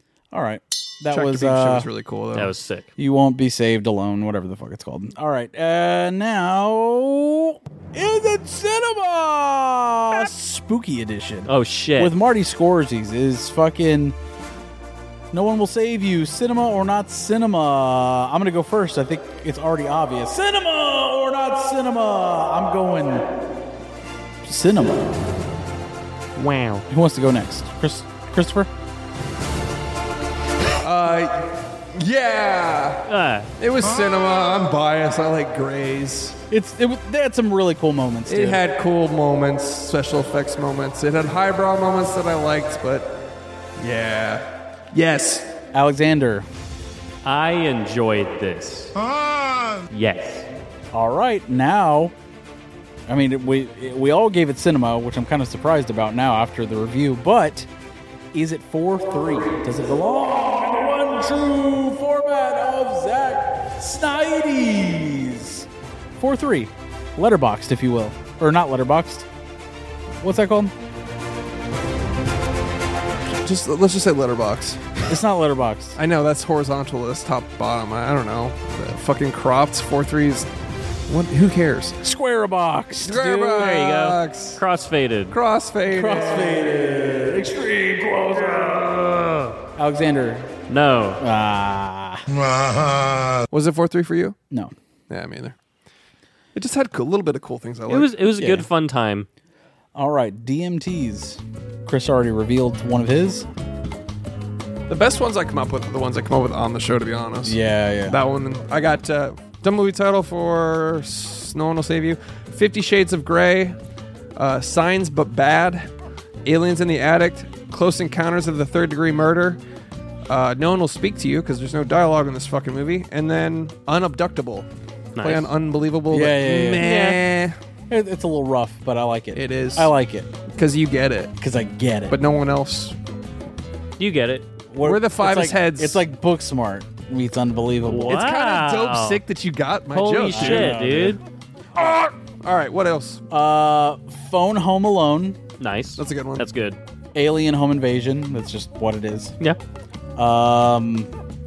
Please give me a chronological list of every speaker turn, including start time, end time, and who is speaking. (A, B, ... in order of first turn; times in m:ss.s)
0:00.3-0:01.9 A
0:01.1-0:02.5 B
0:02.3-0:02.9 C
0:03.0-0:14.2 A
0:11.4-0:12.2 C
0:15.3-0:23.3 A
0:24.4-0:25.4 A
0:26.4-0:26.9 C
0:26.9-0:28.7 A
0:30.8-0:33.1 B
0:33.1-0:33.5 C
0:33.6-0:36.4 B
0:36.5-0:38.6 A
0:38.3-0:43.1 B
0:43.8-0:45.5 B
0:45.7-0:46.4 A
0:47.2-0:49.0 C
0:49.9-0:50.4 C
0:50.9-0:52.1 A
0:53.1-0:57.7 A
0:58.3-1:05.7 A
1:06.2-1:09.3 A
1:10.2-1:10.7 A
1:13.3-1:15.2 B
1:15.1-1:16.0 A
1:16.0-1:20.5 B
1:21.1-1:22.0 B
1:22.0-1:23.8 A
1:23.0-1:24.6 B
1:23.5-1:25.4 C
1:25.3-1:28.2 B
1:25.9-1:28.7 A
1:29.0-1:29.6 C
1:29.8-1:30.5 A
1:30.7-1:31.2 C
1:31.2-1:32.3 A
1:33.5-1:34.4 B
1:35.1-1:35.6 B
1:36.6-1:38.1 B
1:37.9-1:39.3 C
1:38.4-1:38.7 A
1:39.9-1:43.4 A
1:44.9-1:53.8 B
1:47.4-1:48.2 A
1:54.4-1:55.9 B
1:56.4-1:59.6 B
2:00.3-2:04.6 B
2:05.2-2:05.5 C
2:05.2-2:07.6 B
2:06.1-2:06.9 A
2:06.8-2:07.2 C
2:07.9-2:10.3 A
2:09.3-2:09.9 B
2:10.5-2:11.3 B
2:11.4-2:12.2 A
2:12.1-2:13.0 B
2:14.0-2:14.5 C
2:14.7-2:18.2 A
2:14.8-2:16.0 B
2:17.9-2:19.2 C
2:18.1-2:20.8 B
2:19.9-2:21.2 C
2:20.3-2:21.2 A
2:21.8-2:22.1 A
2:21.8-2:23.3 B
2:23.3-2:25.4 A
2:25.6-2:26.8 C
2:26.0-2:26.4 B
2:27.2-2:29.4 A
2:30.2-2:31.1 A